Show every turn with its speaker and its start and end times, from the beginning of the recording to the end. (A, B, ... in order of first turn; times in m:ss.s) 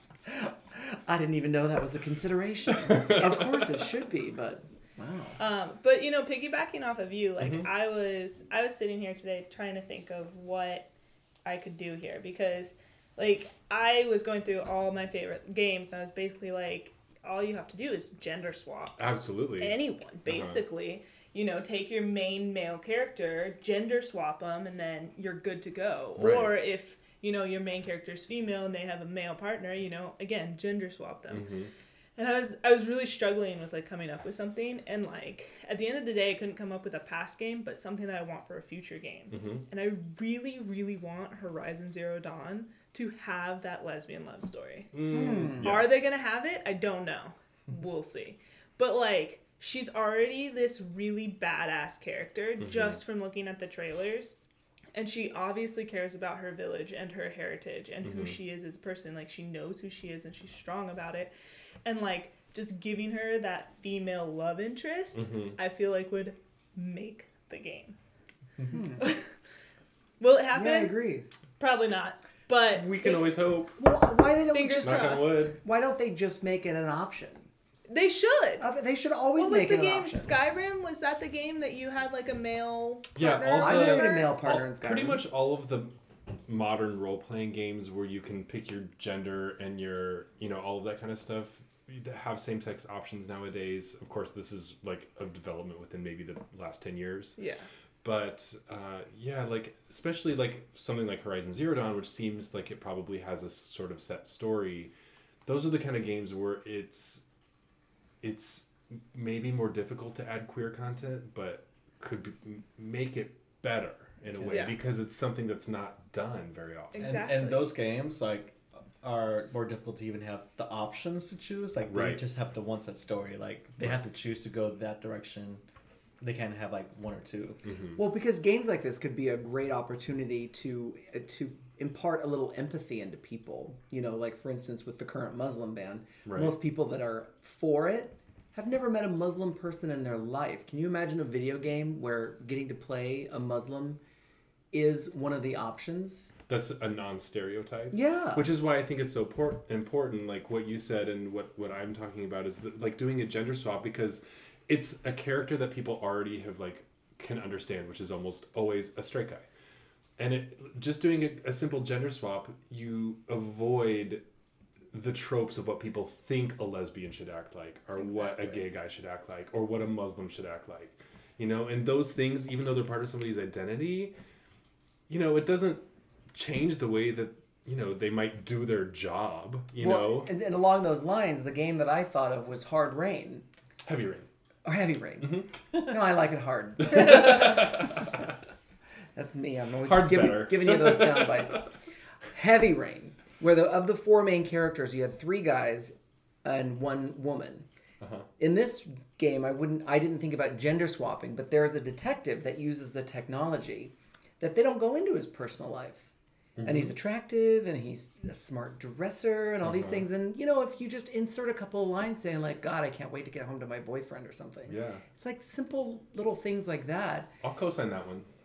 0:00.3-0:05.4 A
0:02.9-0:03.3 B
0:05.4-0:10.9 C
0:07.4-0:07.7 B
0:11.4-0:19.0 C
0:19.0-0:20.6 B
0:19.6-0:31.5 C
0:26.2-0:26.6 B
0:31.3-0:31.7 B
0:32.2-0:45.0 C
0:39.3-0:39.6 B
0:44.9-0:45.9 B
0:45.1-0:45.7 A
0:45.5-0:54.4 C
0:52.6-0:53.0 B
0:54.9-1:01.3 C
0:58.0-0:58.4 B
1:01.8-1:08.0 C
1:05.1-1:05.6 B
1:08.7-1:09.0 A
1:09.0-1:09.2 C
1:10.2-1:11.0 C
1:10.5-1:11.3 A
1:11.6-1:13.0 C
1:12.7-1:13.8 B
1:13.8-1:17.5 A
1:14.5-1:15.5 C
1:14.8-1:15.6 B
1:17.9-1:18.6 C
1:18.6-1:20.3 A
1:19.3-1:24.4 C
1:23.1-1:25.9 B
1:23.6-1:25.2 A
1:26.4-1:37.4 B
1:37.4-1:37.6 C
1:38.0-1:44.9 B
1:45.4-1:47.2 B
1:48.2-1:57.0 B
1:54.4-1:54.8 C
1:56.9-1:57.7 C
1:57.0-2:05.6 D
2:01.9-2:02.2 B
2:06.2-2:07.6 D
2:07.6-2:08.0 B
2:08.0-2:24.0 A
2:16.2-2:16.5 B
2:24.7-2:26.3 A
2:26.5-2:39.4 B
2:27.9-2:28.5 A
2:40.2-2:44.2 B
2:44.9-2:54.1 B
2:48.0-2:48.6 C
2:55.1-2:55.8 B
2:56.3-3:00.3 B
2:59.8-3:03.4 A
3:03.8-3:04.3 B
3:04.6-3:07.9 A
3:05.2-3:05.5 B
3:06.8-3:07.9 B
3:09.1-3:11.7 A
3:09.8-3:11.5 B
3:12.3-3:17.6 A
3:18.0-3:18.3 B
3:18.4-3:26.1 A
3:26.6-3:26.9 B
3:26.6-3:37.3 A
3:29.6-3:30.0 B
3:34.7-3:35.0 B
3:37.4-3:38.3 B